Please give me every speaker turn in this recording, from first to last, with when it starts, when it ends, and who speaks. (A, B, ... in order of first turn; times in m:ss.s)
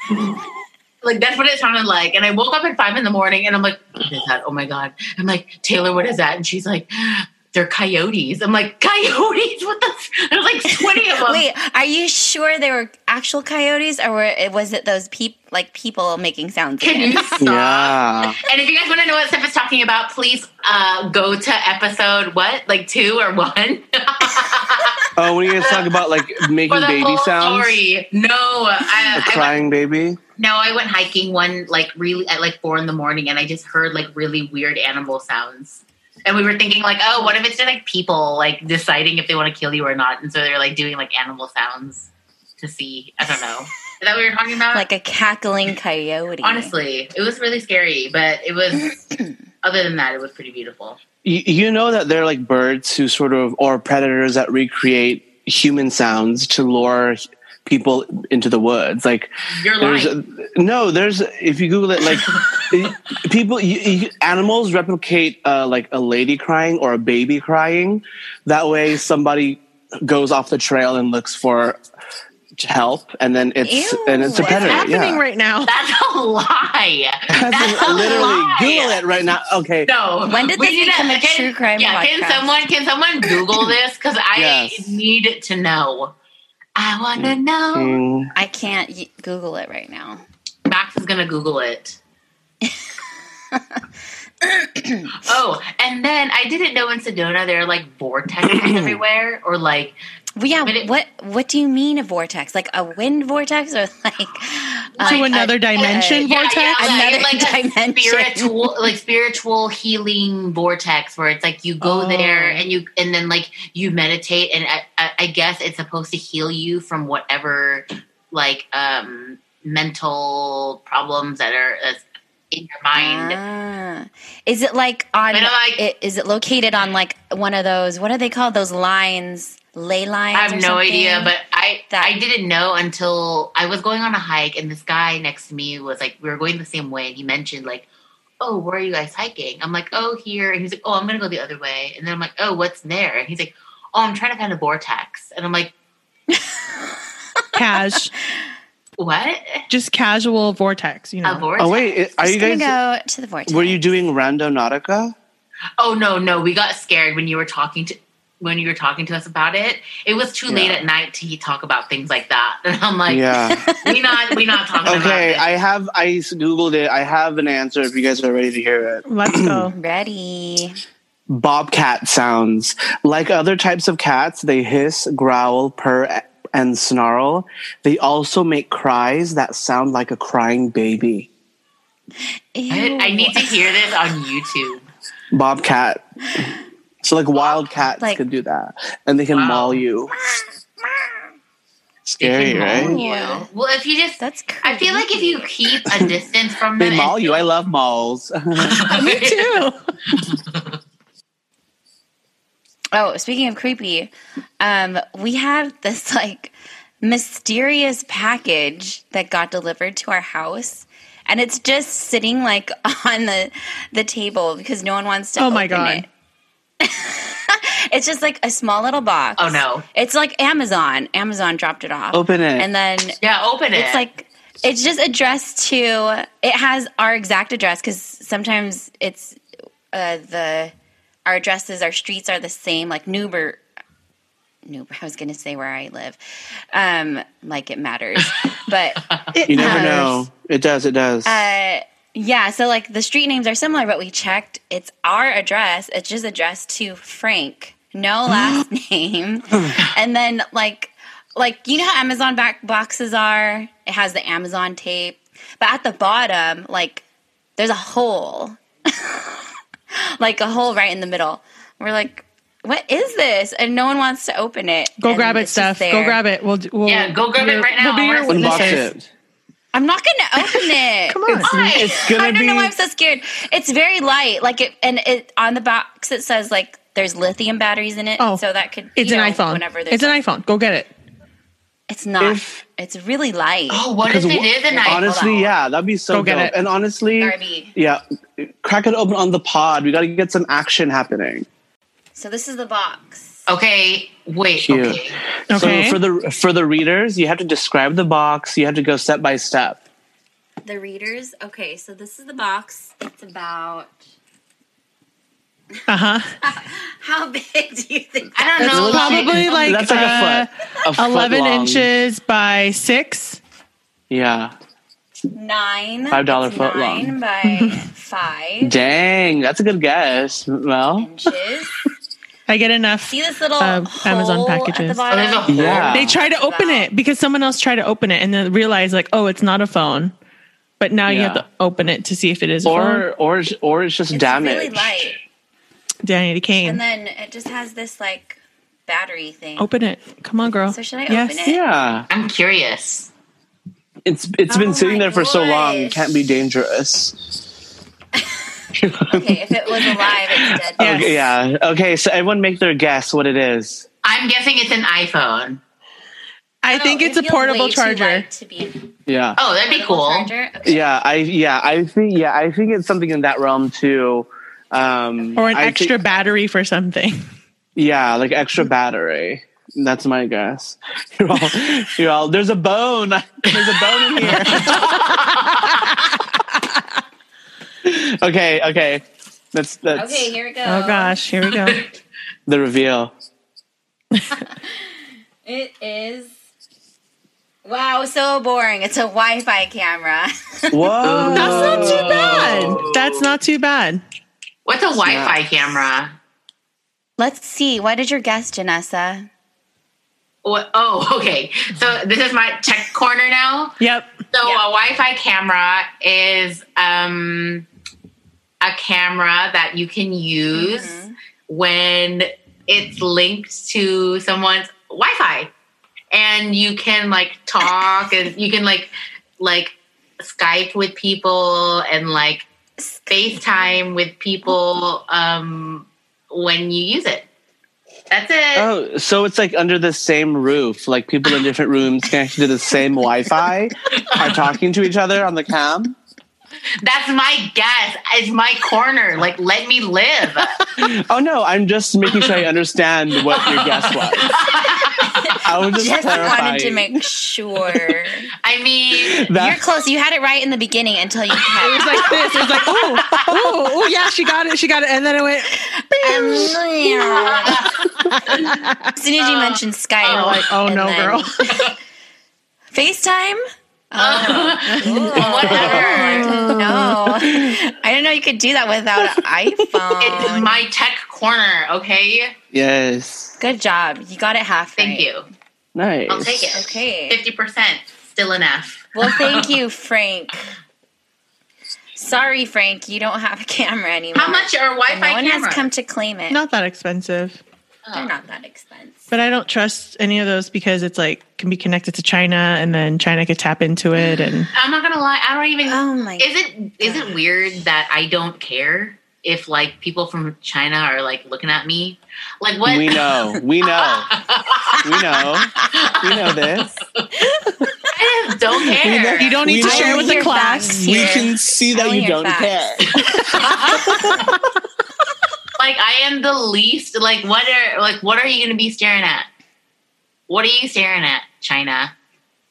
0:01.0-0:11.4 A
0:10.7-0:17.4 B
0:16.8-0:25.1 A
0:17.4-0:18.4 C
0:25.1-0:27.8 C
0:25.6-0:25.9 A
0:26.7-0:29.6 A
0:28.9-0:29.3 B
0:29.1-0:30.2 C
0:30.4-0:44.8 A
0:44.7-0:46.7 B
0:46.4-0:48.9 A
0:49.6-0:51.0 A
0:51.2-0:59.3 C
0:59.5-1:00.1 A
0:59.8-1:11.8 C
1:02.3-1:02.7 A
1:12.6-1:15.2 C
1:13.6-1:14.9 B
1:14.5-1:15.7 D
1:15.6-1:19.0 A
1:17.3-1:19.9 C
1:19.8-1:26.1 A
1:20.2-1:22.6 B
1:24.3-1:25.0 C
1:26.8-1:28.0 A
1:27.2-1:28.3 C
1:28.3-1:30.2 B
1:30.6-1:32.0 A
1:32.6-1:33.0 B
1:33.5-1:33.8 B
1:34.4-1:35.2 B
1:35.2-1:40.0 A
1:38.4-1:39.0 C
1:40.4-1:48.7 B
1:45.0-2:03.4 A
1:45.0-1:46.9 D
1:52.0-1:52.6 B
2:02.9-2:11.3 B
2:05.3-2:05.8 A
2:10.3-2:17.9 A
2:11.9-2:12.1 B
2:18.4-2:25.7 A
2:26.3-2:27.5 B
2:27.5-2:28.1 D
2:29.0-2:29.6 A
2:29.7-2:31.5 D
2:31.2-2:31.9 A
2:31.6-2:32.7 C
2:32.2-2:33.8 B
2:33.5-2:35.1 C
2:35.8-2:43.2 A
2:40.5-2:40.8 C
2:43.1-2:43.7 C
2:43.5-2:44.4 B
2:43.8-2:45.4 A
2:44.8-2:49.7 C
2:49.1-2:49.7 D
2:49.7-2:50.8 B
2:51.3-3:01.3 C
3:02.5-3:03.7 B
3:02.7-3:04.8 A
3:05.3-3:10.2 C
3:07.4-3:07.6 A
3:09.3-3:09.8 A
3:10.3-3:11.2 B
3:12.0-3:13.0 C
3:12.2-3:17.4 A
3:12.4-3:13.5 B
3:14.2-3:16.2 B
3:16.8-3:18.8 C
3:18.6-3:19.6 A
3:18.9-3:19.8 D
3:20.1-3:20.8 A
3:22.9-3:36.1 B
3:35.4-3:36.0 D
3:36.8-3:43.2 B
3:39.4-3:39.8 A
3:42.1-3:42.7 C
3:43.2-3:44.0 A
3:43.7-3:49.4 B
3:49.9-3:50.7 B
3:51.2-3:53.6 B
3:54.6-3:56.2 B
3:56.7-3:59.0 B
3:59.3-4:00.1 D
3:59.5-4:01.4 C
3:59.5-4:00.2 B
4:01.2-4:17.0 B
4:08.3-4:08.6 C
4:09.5-4:09.9 C
4:17.6-4:26.2 B
4:25.0-4:28.9 D
4:26.8-4:28.8 A
4:28.3-4:29.1 C
4:29.7-4:40.2 B
4:30.5-4:31.5 D
4:31.3-4:32.7 C
4:31.4-4:32.1 A
4:39.0-4:40.9 D
4:41.9-4:43.9 B
4:42.2-4:42.6 C
4:43.7-4:45.3 A
4:44.0-4:51.5 C
4:44.7-4:45.5 B
4:46.1-4:46.5 D
4:47.2-4:47.7 B
4:52.1-4:53.4 B
4:53.5-4:55.2 A
4:54.6-4:59.8 C
4:55.5-4:56.0 D
5:00.6-5:03.9 B
5:05.9-5:06.2 D
5:06.4-5:10.3 B
5:08.3-5:09.8 A
5:08.6-5:11.9 C
5:08.7-5:13.4 D
5:14.1-5:14.5 C
5:15.3-5:18.8 B
5:16.1-5:17.1 C
5:17.4-5:17.8 D
5:18.6-5:21.1 C
5:21.0-5:21.7 B
5:22.5-5:25.0 D
5:23.1-5:26.9 B
5:25.1-5:25.9 A
5:25.5-5:26.2 C
5:25.9-5:30.1 D
5:30.8-5:33.0 D
5:31.1-5:31.4 C
5:32.6-5:35.2 C
5:34.1-5:35.2 B
5:36.0-5:36.8 D
5:36.6-5:39.7 B
5:39.6-5:41.4 D
5:40.7-5:41.6 B
5:41.4-5:42.1 C
5:42.1-5:43.1 A
5:44.0-5:47.1 C
5:44.5-5:46.2 B
5:48.2-5:48.4 B
5:48.7-5:53.8 C
5:49.1-5:51.3 B
5:50.8-5:51.1 D
5:54.0-5:55.6 A
5:56.6-5:58.2 D
5:56.7-5:58.8 B
5:59.1-5:59.4 C
5:59.4-6:00.3 A
5:59.7-6:00.8 B
6:00.6-6:05.9 C
6:05.4-6:07.2 D
6:07.8-6:14.8 C
6:14.2-6:15.8 D
6:14.5-6:15.8 A
6:17.8-6:20.3 C
6:19.9-6:21.2 B
6:20.6-6:21.9 D
6:21.5-6:21.8 A
6:22.5-6:23.1 C
6:24.5-6:24.9 B
6:25.4-6:26.3 B
6:27.6-6:30.9 B
6:30.7-6:32.8 C
6:31.0-6:33.3 A
6:31.3-6:34.0 D
6:34.6-6:36.2 A
6:35.0-6:35.4 C
6:37.2-6:39.3 B
6:40.4-6:43.8 A
6:43.8-6:44.1 D
6:44.3-6:47.6 A
6:48.6-6:55.5 A
6:50.5-6:51.1 B
6:56.1-7:02.4 A
7:02.8-7:03.6 B
7:03.1-7:07.3 A
7:08.1-7:08.7 A
7:08.5-7:16.0 C
7:14.0-7:14.3 A
7:16.8-7:20.7 A
7:20.8-7:24.3 C
7:22.1-7:22.4 A
7:23.2-7:25.4 A
7:25.2-7:28.3 B
7:25.3-7:26.8 C
7:28.4-7:29.3 A
7:29.0-7:29.6 C
7:29.3-7:33.6 B
7:31.4-7:32.4 A
7:31.6-7:36.6 D
7:35.6-7:37.9 B
7:37.0-7:38.6 A
7:38.0-7:38.9 D
7:39.0-7:41.4 B
7:39.2-7:40.4 A
7:40.2-7:41.3 D
7:41.4-7:41.7 A
7:42.7-7:50.6 B
7:44.0-7:46.5 A
7:45.1-7:47.6 C
7:50.0-7:52.3 A
7:52.5-7:53.4 C
7:53.4-7:55.1 B
7:54.8-7:55.3 A
7:55.7-7:56.6 C
7:56.1-7:59.5 A
7:56.5-7:57.2 B
7:58.9-8:00.5 B
8:02.0-8:06.4 B
8:04.1-8:05.7 A
8:06.3-8:07.4 D
8:07.8-8:08.1 A
8:07.9-8:09.1 B
8:09.1-8:14.5 D
8:14.0-8:14.5 B
8:14.5-8:23.0 A
8:15.6-8:16.3 B
8:16.8-8:17.2 B
8:22.6-8:24.1 C
8:23.6-8:24.8 A
8:24.8-8:26.7 C
8:24.9-8:25.4 B
8:25.6-8:27.1 A
8:27.2-8:27.9 B
8:27.9-8:29.4 A
8:28.8-8:34.4 C
8:29.2-8:31.0 D
8:29.6-8:34.0 B
8:33.0-8:34.2 A
8:35.6-8:39.3 A
8:40.3-8:41.9 A